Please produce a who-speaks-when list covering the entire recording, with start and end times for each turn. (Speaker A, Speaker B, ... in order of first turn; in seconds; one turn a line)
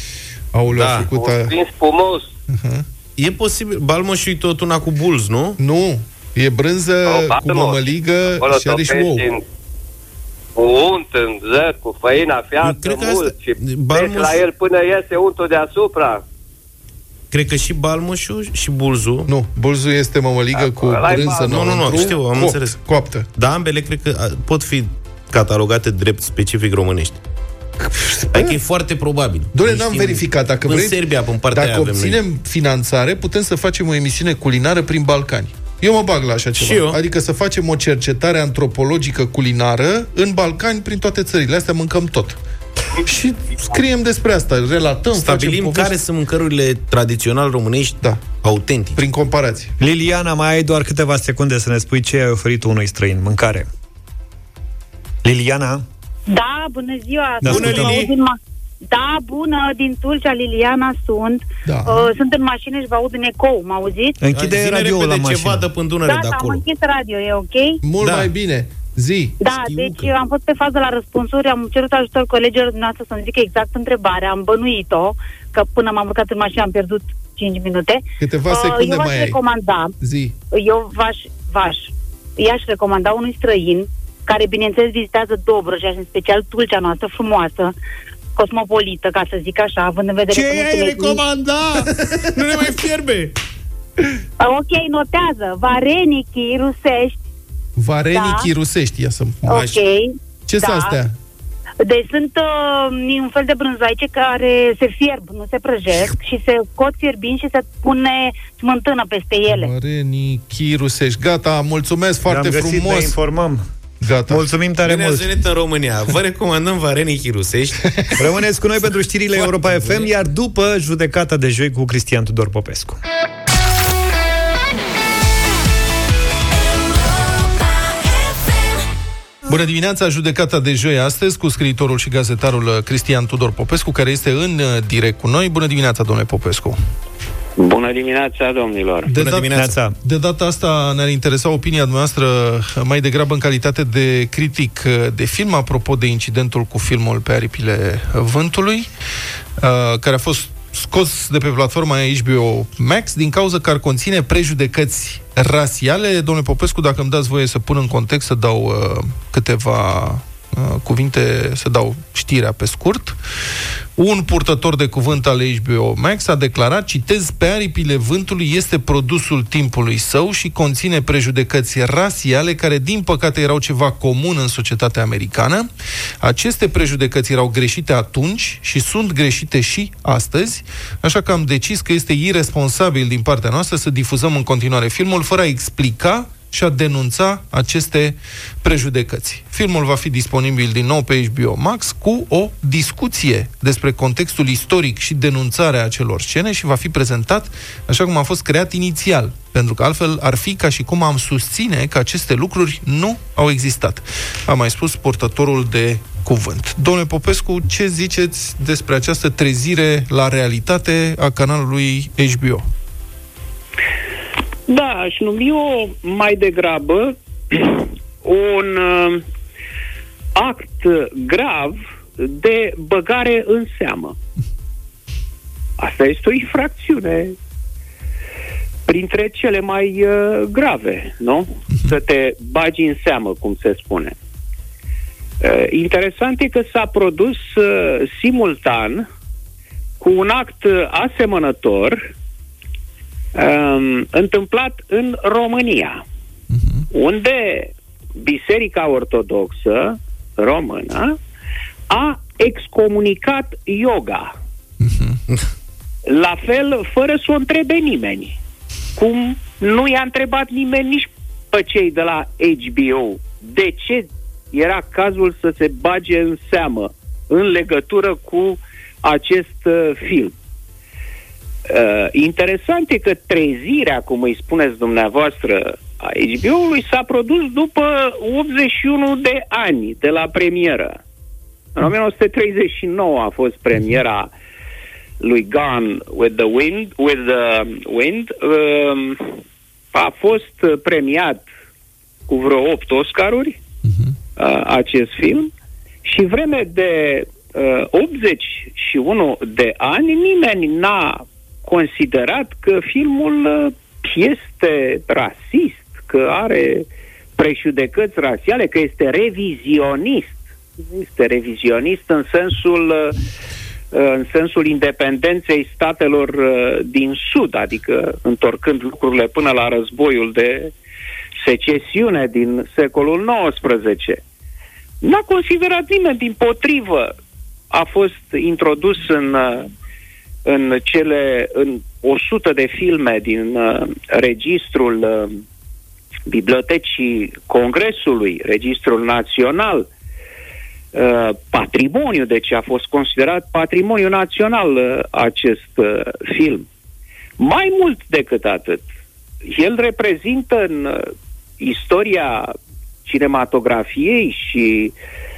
Speaker A: 0.5-1.6
Speaker B: 0.7-1.1
Speaker C: 1.0-2.3
Speaker A: 2.5-2.9
Speaker B: 3.2-5.6
Speaker A: 5.6-9.3
Speaker C: 7.0-9.4
Speaker C: 10.6-16.2
Speaker B: 12.6-14.4
Speaker B: 17.3-19.3
Speaker A: 19.3-23.3
Speaker C: 20.5-22.1
Speaker B: 21.3-22.8
Speaker B: 23.4-27.2
Speaker A: 27.8-28.6
Speaker B: 28.3-32.2
Speaker A: 29.5-31.0
Speaker A: 31.5-42.4
Speaker B: 36.6-37.0
Speaker A: 43.0-46.0
Speaker B: 45.1-49.0
Speaker A: 48.0-48.3
Speaker A: 49.0-49.7
Speaker D: 49.8-53.7
Speaker D: 55.2-55.9
Speaker E: 56.3-58.4
Speaker D: 57.4-58.0
Speaker A: 57.4-58.1
Speaker E: 58.9-64.2
Speaker A: 61.7-62.1
Speaker D: 64.2-65.7
Speaker B: 64.3-66.7
Speaker E: 66.0-67.8
Speaker A: 67.8-69.4
Speaker B: 68.0-68.3
Speaker E: 69.4-79.9
Speaker B: 69.5-70.1
Speaker A: 78.2-79.4
Speaker A: 80.0-80.3
Speaker E: 80.5-87.7
Speaker E: 88.4-91.2
Speaker D: 90.4-91.8
Speaker B: 91.2-93.3
Speaker E: 94.4-97.2
Speaker A: 97.8-99.8
Speaker E: 98.1-98.5
Speaker E: 99.4-101.0
Speaker A: 100.5-101.1
Speaker E: 101.8-109.7
Speaker A: 109.5-113.1
Speaker D: 112.3-113.6
Speaker A: 114.0-114.4
Speaker D: 114.3-115.3
Speaker B: 114.8-118.0
Speaker D: 118.2-123.0
Speaker A: 129.5-136.8
Speaker F: 137.6-139.1
Speaker A: 139.1-148.9
Speaker B: 139.1-139.8
Speaker D: 139.5-140.0
Speaker A: 149.6-163.2
Speaker A: 164.0-175.7
Speaker A: 176.2-212.7
Speaker F: 214.7-219.2
Speaker F: 220.4-224.2
Speaker F: 225.8-227.3
Speaker F: 228.9-234.2
Speaker F: 235.4-239.1
Speaker F: 240.0-242.1
Speaker F: 243.3-246.0
Speaker A: 246.5-246.9
Speaker F: 246.9-251.2
Speaker F: 251.9-254.3
Speaker A: 254.8-255.2
Speaker F: 256.1-258.4
Speaker F: 259.0-270.4
Speaker F: 271.7-281.0
Speaker F: 281.8-284.3
Speaker F: 285.2-289.4
Speaker F: 289.9-291.4
Speaker F: 292.3-293.6
Speaker A: 293.9-294.1
Speaker F: 294.4-295.5
Speaker F: 296.1-313.2
Speaker F: 313.9-320.7
Speaker F: 321.4-324.2
Speaker F: 325.0-327.1
Speaker F: 327.7-329.7
Speaker F: 330.4-335.4
Speaker F: 336.3-339.9
Speaker F: 340.9-346.7
Speaker F: 347.4-348.9
Speaker F: 349.4-352.5
Speaker F: 353.1-354.9